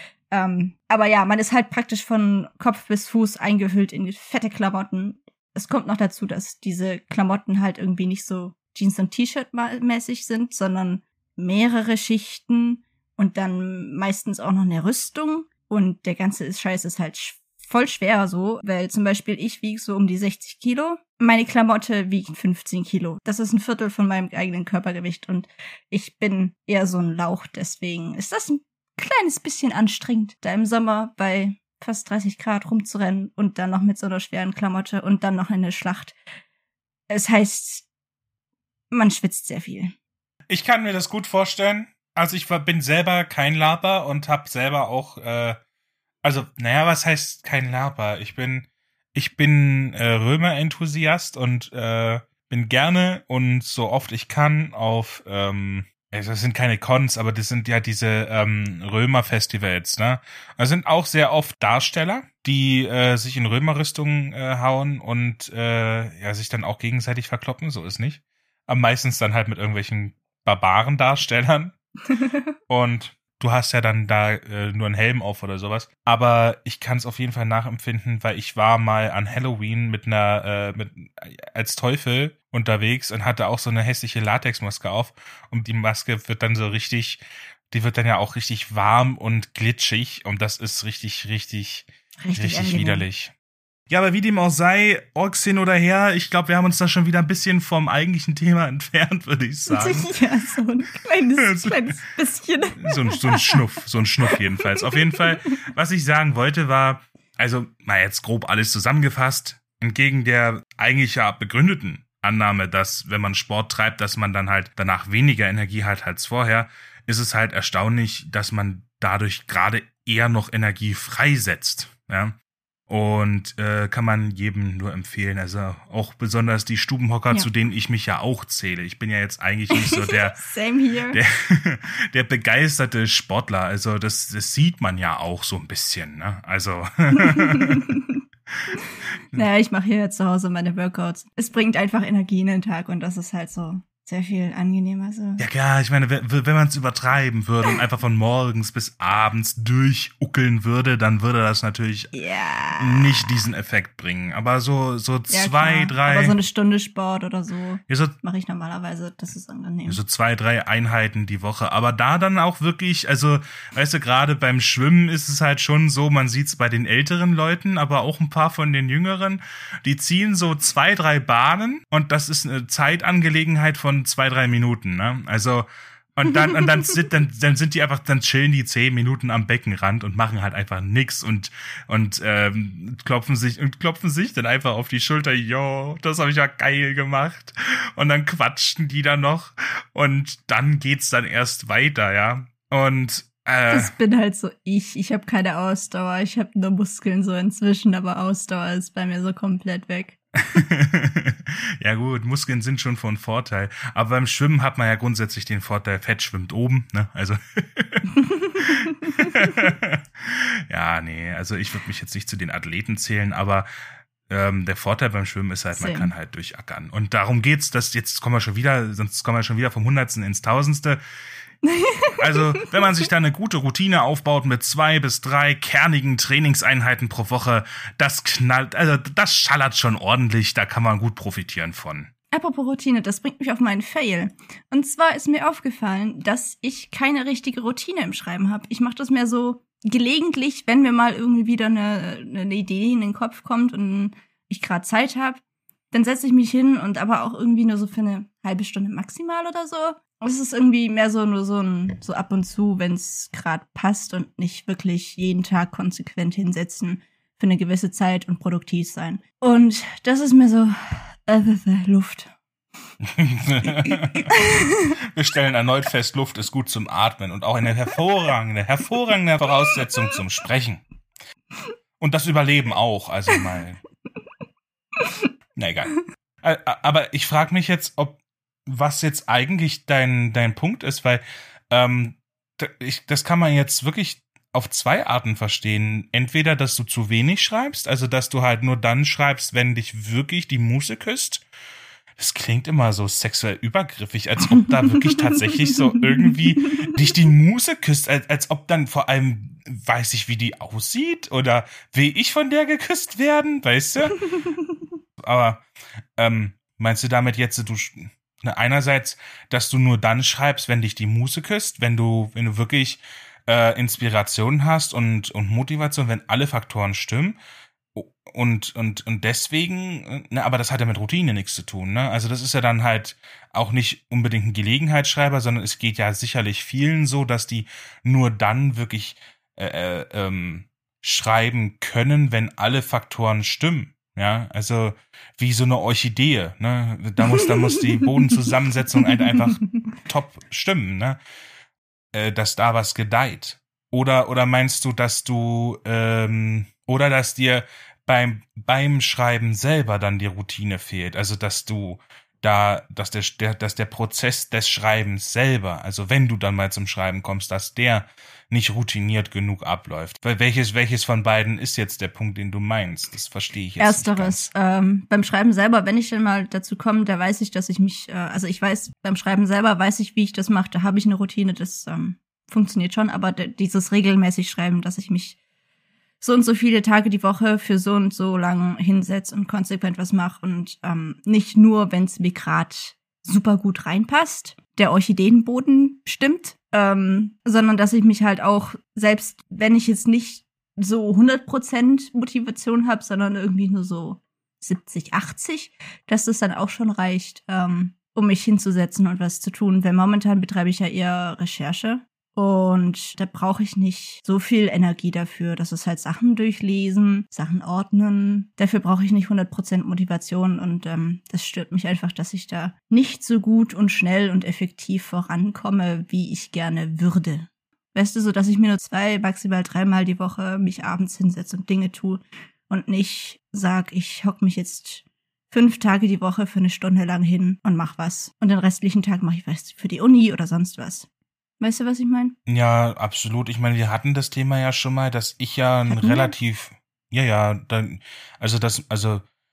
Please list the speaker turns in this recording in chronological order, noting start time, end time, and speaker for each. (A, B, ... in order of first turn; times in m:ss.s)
0:00.3-0:36.2 A
0:37.1-0:37.8 A
0:38.9-0:39.9 A
0:40.5-0:45.6 B
0:46.2-1:11.7 B
1:12.7-1:33.3 B
1:32.2-1:33.0 A
1:33.9-1:40.1 B
1:39.7-1:43.6 A
1:41.4-1:42.0 B
1:42.8-2:02.4 B
1:44.8-1:45.3 A
2:02.9-2:10.4 B
2:09.7-2:11.2 A
2:11.1-2:17.9 B
2:17.2-2:18.2 A
2:18.7-2:25.4 A
2:25.4-2:32.1 B
2:32.1-2:33.3 A
2:32.8-2:36.4 B
2:35.3-2:40.0 A
2:37.9-2:38.1 B
2:39.9-3:13.9 B
3:13.7-3:20.2 A
3:20.5-3:33.7 B
3:28.2-3:29.5 A
3:34.3-3:41.0 B
3:35.7-3:36.1 A
3:41.6-3:42.7 A
3:42.2-3:52.1 B
3:52.3-4:05.4 A
4:05.9-4:22.3 A
4:23.0-4:24.4 B
4:23.8-4:24.8 A
4:25.0-4:30.8 B
4:32.0-4:33.8 B
4:35.6-4:51.4 B
4:52.2-5:04.2 B
4:55.0-4:55.7 A
4:56.2-4:56.9 A
5:05.2-5:05.6 B
5:06.2-5:17.4 B
5:17.9-5:41.2 B
5:37.4-5:39.8 A
5:42.1-6:04.5 B
6:03.8-6:15.4 A
6:16.2-7:11.1 A
7:11.6-7:12.4 A
7:12.5-7:19.2 B
7:15.9-7:16.3 A